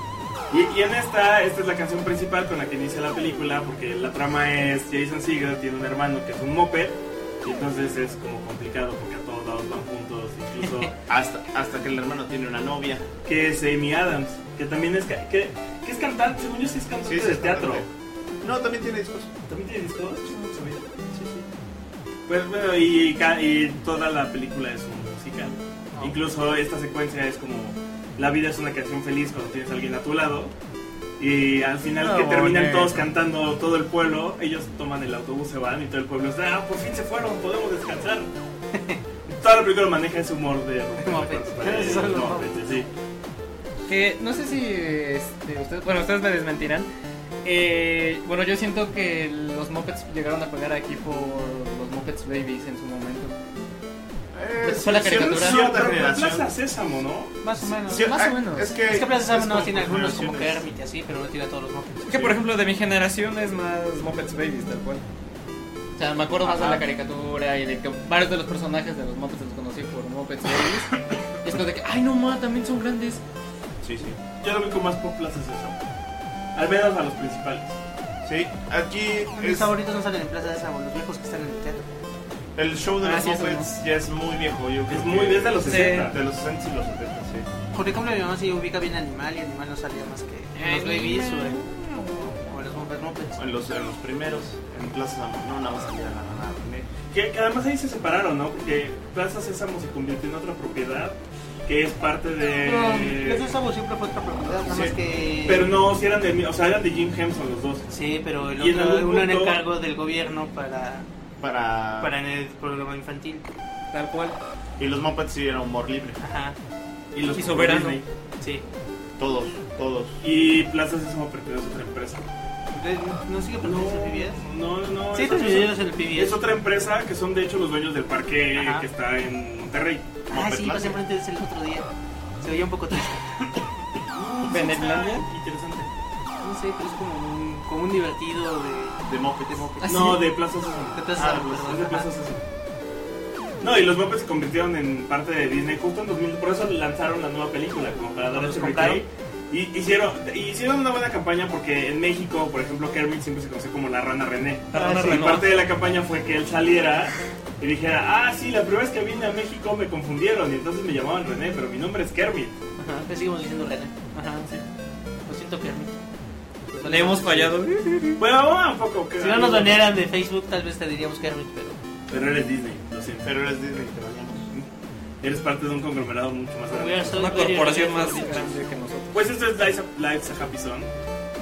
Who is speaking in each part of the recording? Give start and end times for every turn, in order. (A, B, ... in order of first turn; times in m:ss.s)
0:00.5-0:10.9 A
0:11.1-0:13.1 B
0:13.2-0:17.8 A
0:17.0-0:17.9 B
0:18.4-0:19.3 B
0:19.5-0:20.8 A
0:22.3-0:30.5 A
0:31.2-0:38.3 A
0:32.0-0:33.0 C
0:39.3-0:42.9 A
0:41.0-0:42.5 D
0:43.9-0:46.9 C
0:47.4-0:53.4 C
0:54.3-0:56.5 B
0:54.6-0:55.6 C
0:55.1-0:57.3 A
0:57.4-0:58.1 D
0:57.8-1:00.6 B
0:57.9-0:58.7 C
0:58.8-1:02.4 D
1:02.1-1:05.0 C
1:06.0-1:13.2 C
1:06.4-1:06.8 D
1:13.8-1:14.2 B
1:14.4-1:15.8 A
1:16.5-1:17.8 A
1:18.2-1:19.7 B
1:19.4-1:21.8 D
1:22.6-1:27.5 B
1:23.0-1:23.7 C
1:24.9-1:26.2 A
1:25.6-1:26.1 C
1:27.7-1:31.6 D
1:30.6-1:32.4 C
1:32.4-1:33.4 D
1:33.4-1:36.9 B
1:37.1-1:43.5 A
1:42.6-1:45.7 D
1:44.6-1:45.0 B
1:45.4-1:47.8 A
1:47.9-1:51.0 D
1:48.6-1:49.6 A
1:51.4-1:52.1 B
1:52.0-1:53.4 D
1:53.9-1:54.4 C
1:54.8-1:56.2 B
1:56.2-1:56.6 D
1:57.1-1:58.0 A
1:57.3-1:58.0 C
1:59.2-2:00.2 B
2:00.2-2:02.2 A
2:02.7-2:04.4 D
2:03.6-2:10.1 A
2:05.1-2:06.4 D
2:08.5-2:08.9 D
2:10.3-2:11.0 B
2:10.3-2:11.9 D
2:12.4-2:13.4 D
2:14.1-2:15.9 A
2:14.5-2:15.3 C
2:16.4-2:20.2 D
2:19.1-2:19.7 B
2:19.8-2:20.2 C
2:19.8-2:22.4 A
2:20.9-2:22.1 D
2:21.2-2:21.6 B
2:23.6-2:42.5 A
2:28.3-2:29.0 D
2:34.7-2:35.5 C
2:35.1-2:35.4 D
2:42.8-2:43.1 C
2:43.1-2:43.9 D
2:44.1-2:44.5 C
2:45.3-2:46.0 D
2:46.7-2:47.5 D
2:46.8-2:48.2 C
2:48.2-2:49.9 A
2:49.2-2:51.8 D
2:52.1-2:53.3 A
2:53.2-2:54.5 B
2:55.2-2:57.2 A
2:56.7-2:58.6 D
2:57.1-2:59.2 C
2:59.1-3:00.9 A